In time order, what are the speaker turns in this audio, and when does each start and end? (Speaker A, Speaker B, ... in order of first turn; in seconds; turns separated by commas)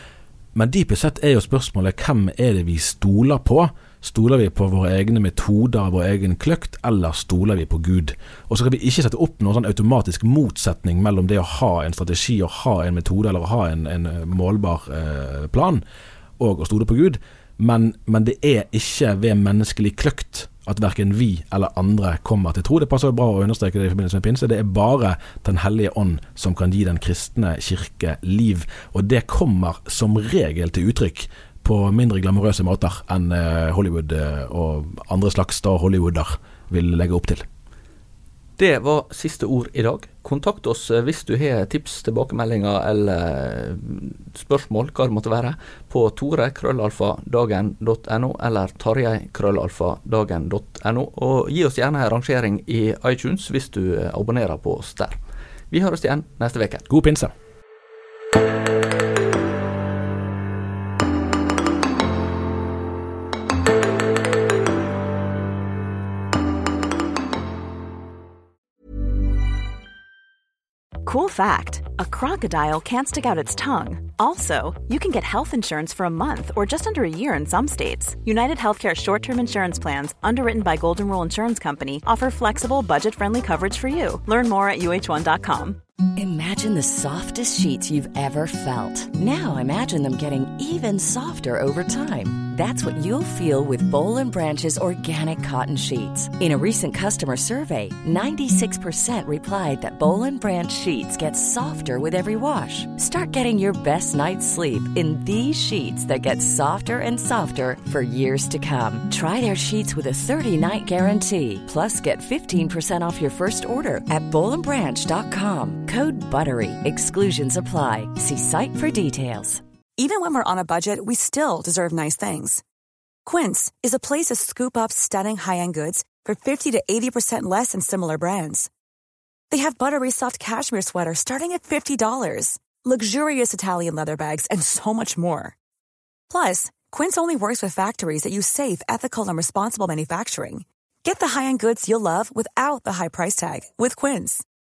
Speaker A: 0.6-15.8, Speaker A: 16.4-37.5, Speaker B: 38.6-55.2, Speaker B: 55.7-56.9, Speaker A: 56.9-57.3, Speaker C: 71.0-85.8, Speaker D: 86.2-119.6, Speaker E: 120.0-122.6, Speaker E: 123.2-128.7, Speaker E: 129.5-135.6, Speaker E: 136.3-144.4